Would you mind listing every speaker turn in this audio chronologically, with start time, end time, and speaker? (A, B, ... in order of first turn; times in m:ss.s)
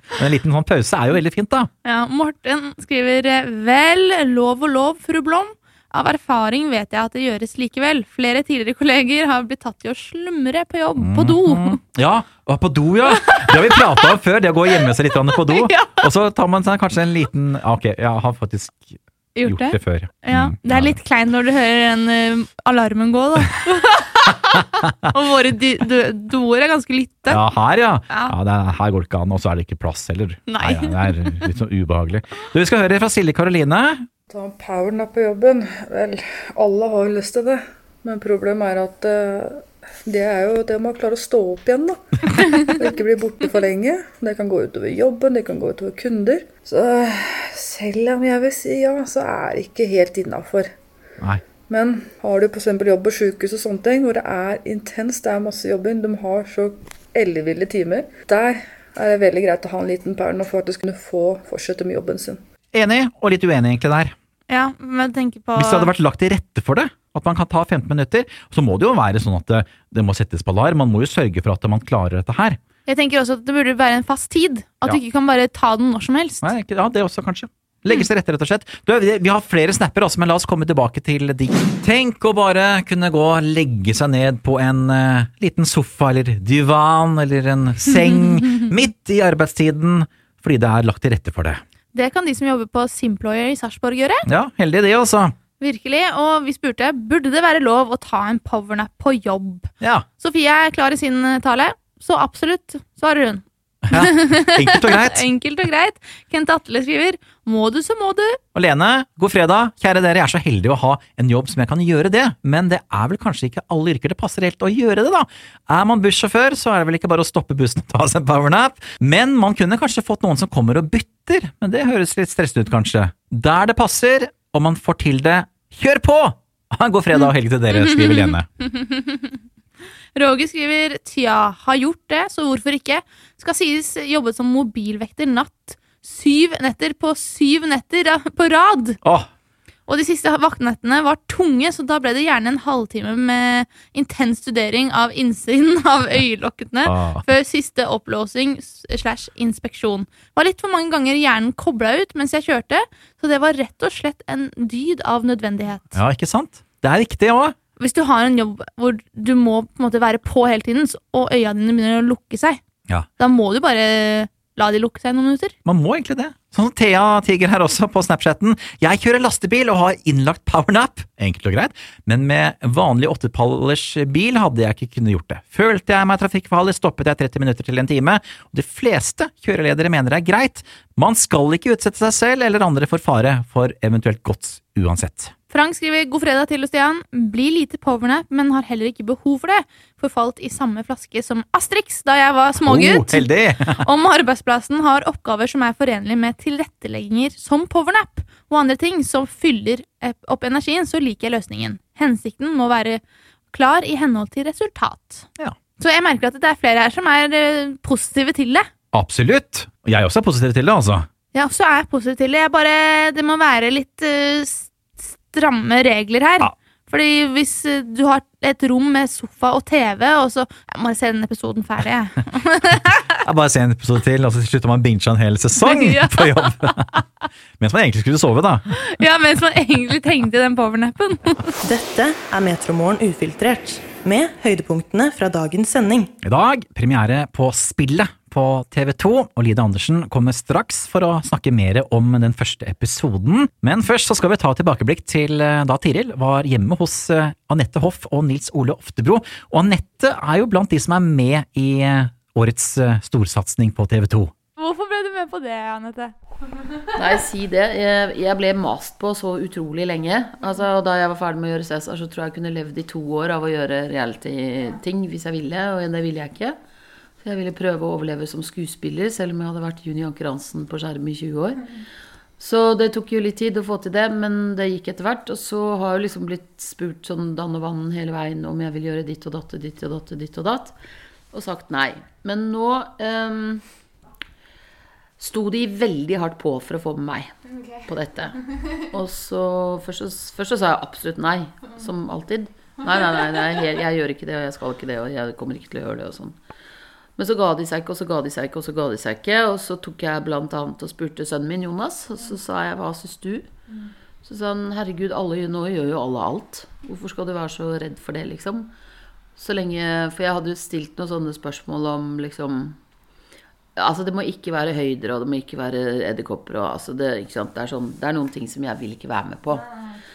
0:00.1-0:01.7 A
0:01.8-0:11.8 B
0:11.0-0:21.0 A
0:13.2-0:13.6 B
0:15.3-0:15.9 B
0:19.4-0:27.4 B
0:27.3-0:34.0 A
0:30.5-0:31.3 B
0:34.3-0:42.0 C
0:42.6-0:50.7 C
0:51.7-1:02.4 C
1:02.7-1:04.1 A
1:04.5-1:05.9 B
1:05.6-1:12.6 A
1:12.8-1:16.5 B
1:16.4-1:31.6 A
1:31.9-1:34.2 B
1:34.2-1:35.3 A
1:35.6-1:48.4 B
1:39.8-1:40.0 A
1:43.9-1:45.2 A
1:48.5-2:08.5 A
2:07.2-2:09.4 B
2:10.2-2:19.0 B
2:19.9-2:36.0 B
2:26.8-2:27.2 A
2:35.9-2:37.5 A
2:37.8-2:42.6 B
2:43.2-2:45.5 B
2:45.6-3:05.3 A
3:05.5-3:23.0 B
3:12.6-3:13.8 A
3:23.5-3:25.2 B
3:25.8-3:28.7 B
3:28.9-3:31.1 A
3:31.3-3:43.0 B
3:43.2-3:46.9 A
3:45.6-3:47.0 B
3:47.6-3:48.7 A
3:48.7-3:51.6 B
3:51.6-3:56.1 D
3:56.2-4:14.3 A
4:14.6-4:16.1 B
4:16.9-4:26.6 E
4:27.2-4:31.6 E
4:32.4-4:40.7 E
4:41.3-4:43.6 E
4:45.2-4:56.4 E
4:57.2-5:03.5 E
5:04.2-5:08.7 E
5:09.4-5:12.8 E
5:13.8-5:19.7 E